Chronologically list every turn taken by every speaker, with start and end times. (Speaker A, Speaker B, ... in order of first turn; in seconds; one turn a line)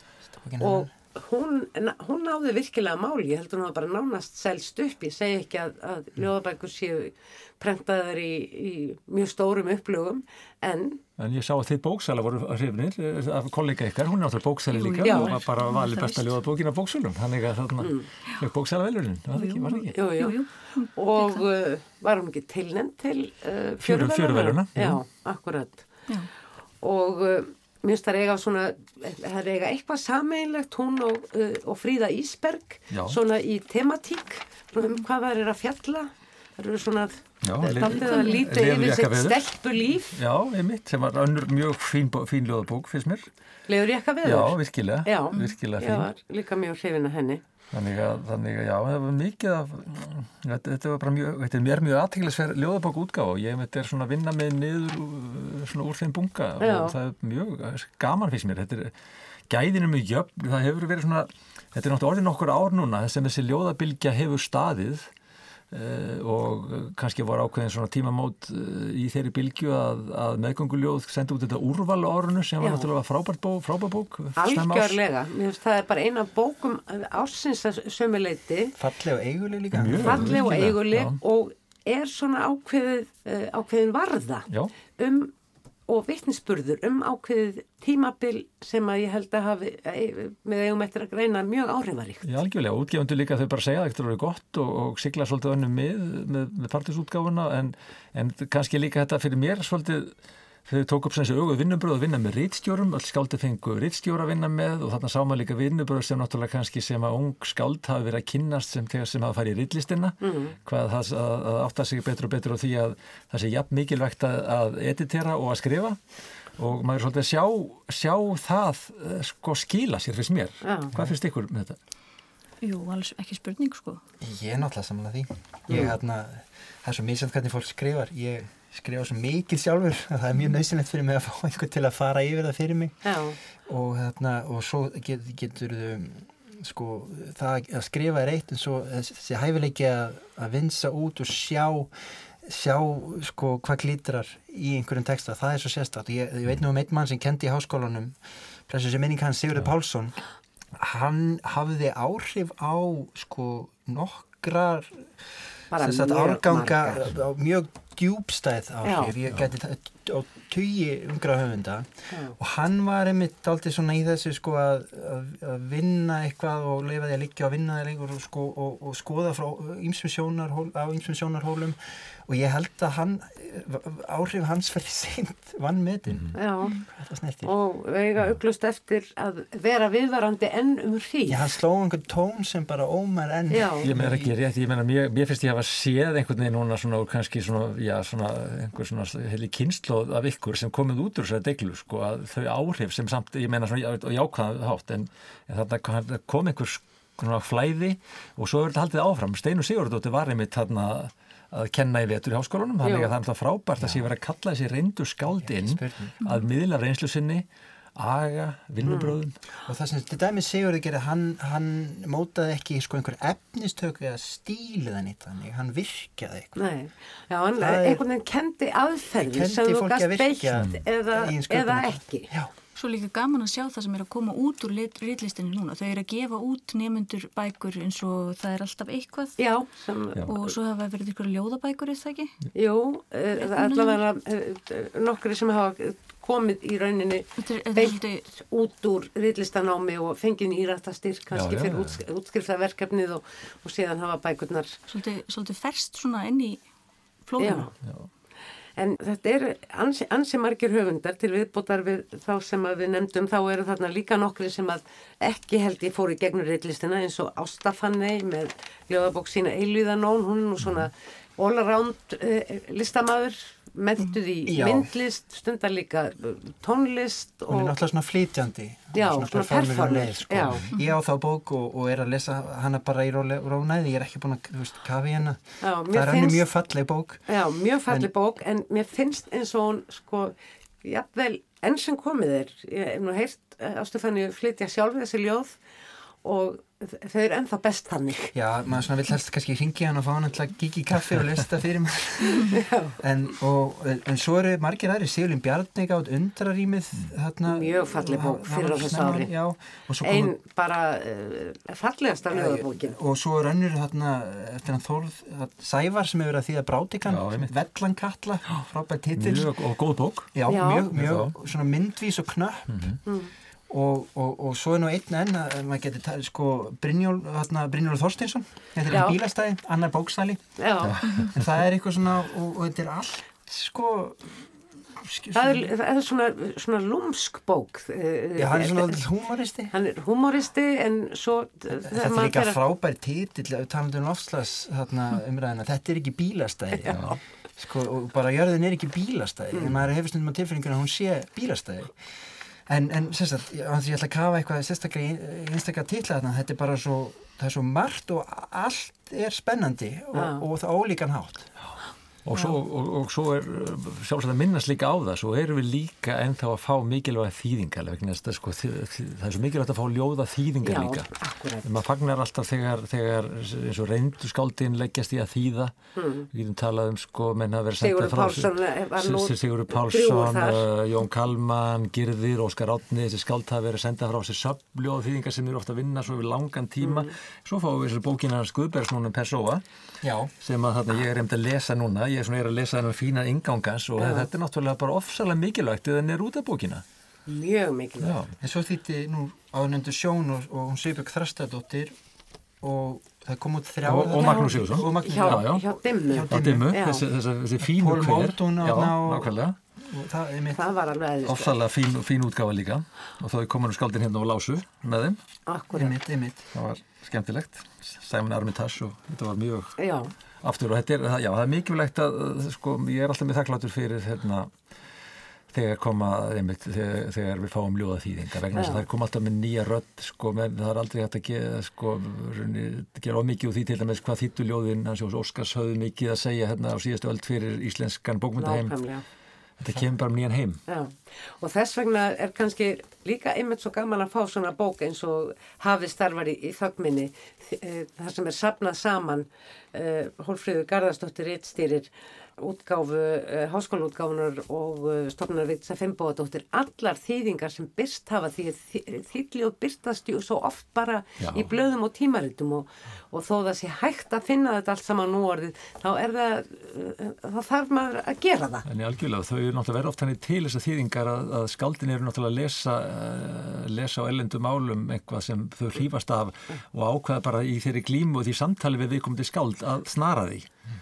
Speaker A: 0.4-0.9
Speaker B: 0.6-11.0
Speaker C: 11.2-20.0
Speaker D: 14.7-16.4
Speaker B: 15.0-15.4
Speaker B: 17.8-18.1
Speaker D: 19.3-21.4
Speaker B: 19.9-25.9
Speaker C: 23.8-25.0
Speaker B: 26.8-40.2
Speaker C: 32.9-33.2
Speaker C: 37.4-39.5
Speaker D: 37.8-38.4
Speaker C: 40.1-43.3
Speaker B: 43.7-47.4
Speaker C: 44.2-46.1
Speaker C: 47.7-58.9
Speaker B: 56.6-57.0
Speaker C: 59.5-65.1
Speaker C: 65.7-75.0
Speaker B: 72.6-72.9
Speaker B: 74.3-78.8
Speaker A: 78.8-80.5
Speaker C: 79.7-81.2
Speaker B: 80.0-85.3
Speaker B: 85.9-92.3
Speaker C: 92.2-100.1
Speaker C: 100.7-116.0
Speaker B: 110.2-110.5
Speaker C: 116.6-121.8
Speaker B: 120.6-120.9
Speaker D: 122.6-124.0
Speaker A: 124.2-150.2
Speaker B: 125.7-125.9
Speaker B: 133.0-133.4
Speaker A: 150.7-177.5
Speaker B: 155.7-157.1
Speaker B: 158.8-159.1
Speaker B: 162.1-162.3
Speaker B: 176.3-176.8
Speaker B: 177.4-181.5
Speaker A: 181.3-184.3
Speaker B: 183.5-183.9
Speaker C: 183.8-209.3
Speaker B: 202.8-203.1
Speaker A: 203.8-204.1
Speaker A: 205.3-206.2
Speaker B: 208.8-209.2
Speaker A: 209.6-216.6
Speaker B: 216.6-222.3
Speaker A: 217.6-218.0
Speaker A: 219.2-222.5
Speaker C: 220.6-220.8
Speaker D: 222.8-229.4
Speaker B: 229.4-230.3
Speaker D: 230.2-232.4
Speaker B: 232.5-244.8
Speaker D: 233.4-234.0
Speaker D: 237.4-238.2
Speaker C: 241.3-242.0
Speaker D: 244.9-246.6
Speaker D: 247.2-247.7
Speaker B: 247.4-247.7
Speaker C: 247.8-248.1
Speaker B: 248.8-267.7
Speaker A: 264.5-264.9
Speaker A: 267.5-277.3
Speaker B: 268.9-270.7
Speaker B: 275.6-276.4
Speaker B: 277.3-285.6
Speaker B: 286.2-288.4
Speaker A: 288.3-300.3
Speaker B: 292.2-293.0
Speaker B: 297.5-299.3
Speaker B: 300.0-303.0
Speaker A: 302.3-309.5
Speaker C: 307.1-307.5
Speaker C: 309.1-310.4
Speaker A: 310.3-312.9
Speaker B: 310.5-310.9
Speaker C: 310.9-311.3
Speaker C: 312.7-313.0
Speaker B: 313.0-313.3
Speaker A: 313.7-325.7
Speaker B: 318.9-319.2
Speaker B: 320.6-321.1
Speaker C: 320.8-321.3
Speaker B: 325.3-329.0
Speaker A: 328.4-329.7
Speaker B: 329.7-332.6
Speaker A: 331.8-342.1
Speaker B: 336.7-337.1
Speaker C: 336.9-337.2
Speaker B: 339.5-339.8
Speaker A: 342.7-351.5
Speaker B: 350.1-350.4
Speaker C: 351.6-365.7
Speaker B: 360.6-361.8
Speaker B: 365.9-366.3
Speaker C: 366.3-379.6
Speaker B: 367.8-370.6
Speaker B: 376.8-377.1
Speaker A: 380.0-380.3
Speaker C: 380.4-386.8
Speaker B: 384.0-384.3
Speaker B: 387.3-388.2
Speaker C: 388.0-388.3
Speaker A: 388.4-391.9
Speaker A: 392.6-395.5
Speaker C: 393.8-399.6
Speaker B: 394.1-397.0
Speaker A: 396.1-396.7
Speaker A: 397.6-400.6
Speaker B: 400.5-401.6
Speaker C: 401.2-405.2
Speaker B: 405.5-405.9
Speaker A: 405.7-406.5
Speaker C: 406.5-409.8
Speaker B: 409.8-410.1
Speaker C: 410.4-414.5
Speaker C: 415.5-428.8
Speaker B: 418.5-418.8
Speaker B: 428.4-429.0
Speaker C: 429.6-430.6
Speaker B: 430.7-458.6
Speaker C: 451.2-451.5
Speaker C: 458.6-470.5